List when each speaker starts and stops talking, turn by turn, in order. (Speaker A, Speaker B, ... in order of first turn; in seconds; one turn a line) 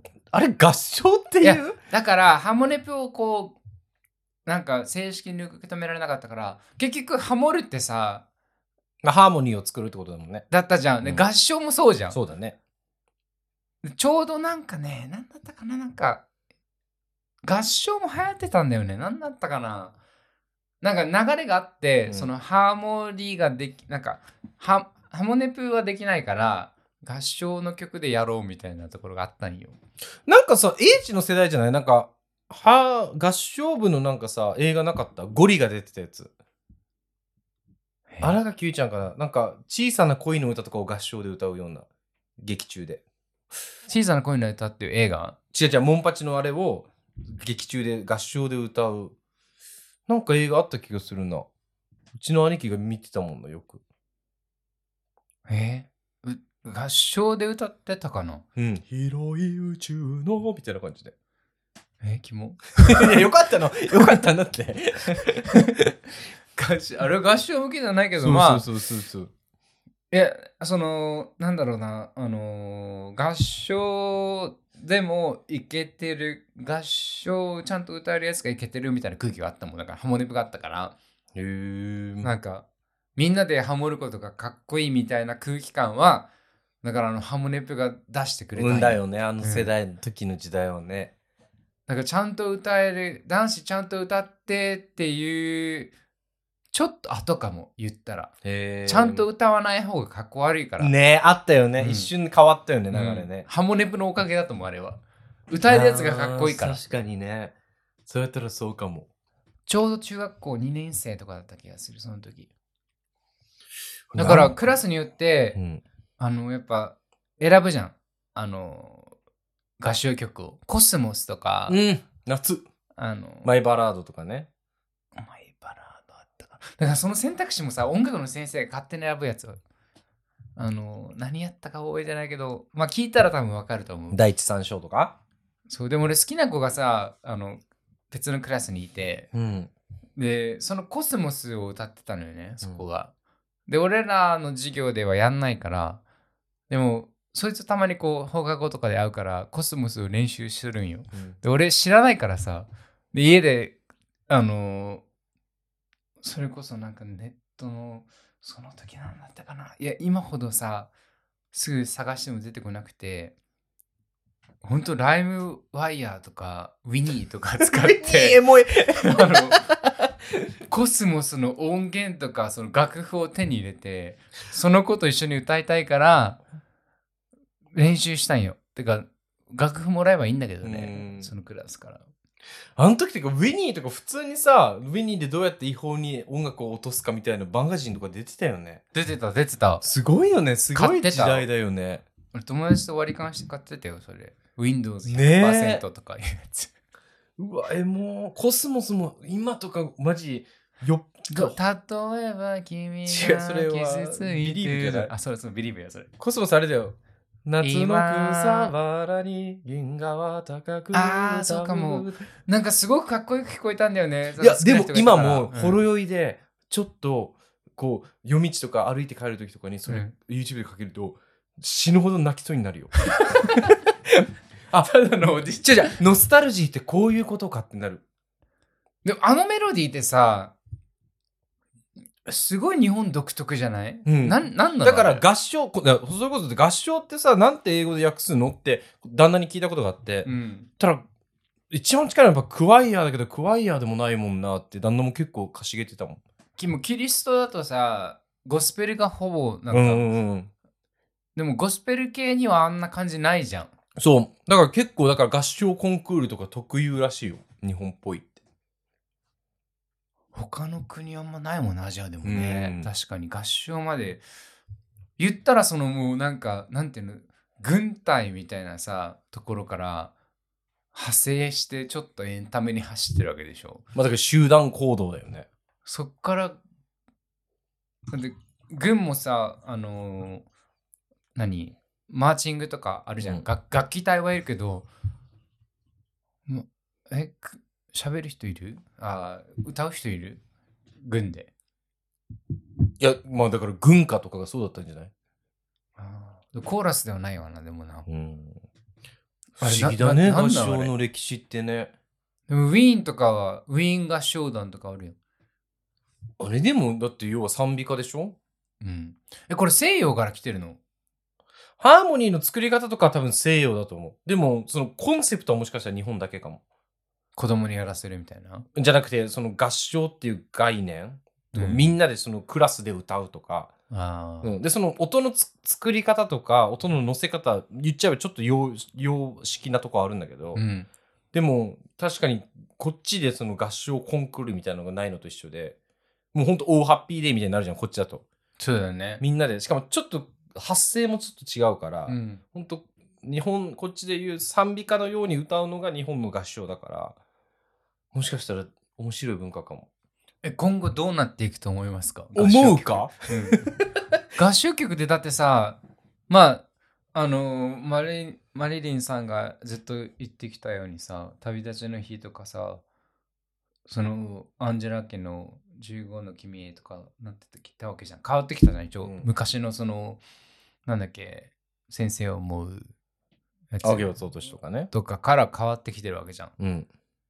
Speaker A: 0.3-1.8
Speaker B: 1.4-3.6
Speaker B: 4.5-8.2
Speaker A: 9.0-10.5
Speaker B: 10.5-12.2
Speaker A: 12.1-12.6
Speaker B: 13.8-16.2
Speaker B: 17.4-20.0
Speaker B: 20.8-29.8
Speaker A: 30.3-36.3
Speaker B: 38.1-38.4
Speaker A: 38.2-41.9
Speaker A: 42.4-43.0
Speaker B: 43.9-45.4
Speaker A: 45.5-49.1
Speaker A: 50.1-51.5
Speaker A: 52.1-53.8
Speaker B: 55.5-58.4
Speaker A: 58.6-61.1
Speaker B: 62.0-63.2
Speaker A: 62.9-65.9
Speaker B: 66.6-68.7
Speaker A: 68.2-69.3
Speaker B: 70.1-81.0
Speaker A: 81.3-82.3
Speaker B: 82.2-82.7
Speaker B: 83.2-86.3
Speaker B: 86.8-89.7
Speaker A: 88.5-91.1
Speaker B: 91.9-95.9
Speaker B: 96.7-98.3
Speaker A: 98.4-99.2
Speaker B: 98.9-100.9
Speaker A: 100.8-103.5
Speaker B: 101.8-102.1
Speaker B: 102.9-106.8
Speaker A: 105.7-107.5
Speaker A: 108.1-109.1
Speaker B: 109.7-112.5
Speaker A: 114.1-114.8
Speaker B: 114.2-115.6
Speaker A: 115.5-115.8
Speaker B: 116.2-119.1
Speaker B: 119.8-121.8
Speaker A: 121.7-122.7
Speaker B: 123.0-123.5
Speaker A: 123.4-124.5
Speaker B: 125.2-129.6
Speaker B: 130.6-134.2
Speaker A: 134.1-135.2
Speaker B: 135.7-139.3
Speaker A: 139.3-139.7
Speaker B: 140.2-143.1
Speaker B: 143.7-146.0
Speaker B: 146.7-153.8
Speaker A: 151.1-151.4
Speaker B: 154.3-155.0
Speaker B: 156.2-160.9
Speaker B: 161.5-163.3
Speaker B: 164.6-168.4
Speaker A: 167.6-169.7
Speaker B: 169.0-169.6
Speaker B: 170.7-176.4
Speaker B: 177.7-182.1
Speaker A: 180.6-181.3
Speaker A: 182.8-188.8
Speaker B: 188.9-189.8
Speaker A: 189.8-192.0
Speaker B: 190.8-191.5
Speaker B: 192.3-196.7
Speaker A: 195.1-195.8
Speaker A: 197.4-201.6
Speaker B: 201.3-206.1
Speaker A: 203.1-205.1
Speaker A: 206.2-212.2
Speaker B: 207.6-208.7
Speaker B: 210.9-215.8
Speaker A: 214.4-222.9
Speaker B: 219.9-220.1
Speaker B: 223.2-223.7
Speaker A: 224.1-228.0
Speaker B: 224.8-226.0
Speaker B: 229.0-230.6
Speaker B: 232.3-235.2
Speaker A: 234.1-241.0
Speaker B: 240.2-240.7
Speaker A: 241.7-246.2
Speaker B: 246.6-250.1
Speaker A: 249.7-250.5
Speaker B: 251.4-253.7
Speaker A: 254.0-258.3
Speaker B: 260.3-264.2
Speaker A: 262.2-262.9
Speaker B: 265.2-270.1
Speaker B: 270.9-273.8
Speaker A: 273.9-275.5
Speaker B: 275.9-276.6
Speaker B: 278.1-280.4
Speaker B: 281.4-284.9
Speaker B: 286.5-290.4
Speaker B: 291.0-291.5
Speaker A: 293.0-295.1
Speaker B: 296.0-298.1
Speaker A: 298.1-298.6
Speaker A: 299.6-301.9
Speaker B: 299.6-300.9
Speaker B: 302.5-305.2
Speaker A: 306.4-308.4
Speaker B: 308.8-310.8
Speaker A: 311.8-316.6
Speaker B: 317.4-318.7
Speaker A: 318.8-323.7
Speaker B: 321.5-321.9
Speaker B: 323.9-324.5
Speaker A: 324.4-330.6
Speaker B: 330.6-330.9
Speaker A: 331.3-335.8
Speaker A: 336.3-338.2
Speaker B: 338.6-339.2
Speaker A: 339.2-347.2
Speaker B: 342.1-342.4
Speaker A: 348.1-349.9
Speaker B: 350.4-353.6
Speaker A: 352.4-353.9
Speaker B: 354.3-362.8
Speaker B: 363.9-370.2
Speaker A: 369.0-369.3
Speaker B: 370.9-372.9
Speaker B: 373.7-374.1
Speaker A: 373.8-374.9
Speaker B: 374.9-376.5
Speaker A: 376.6-376.9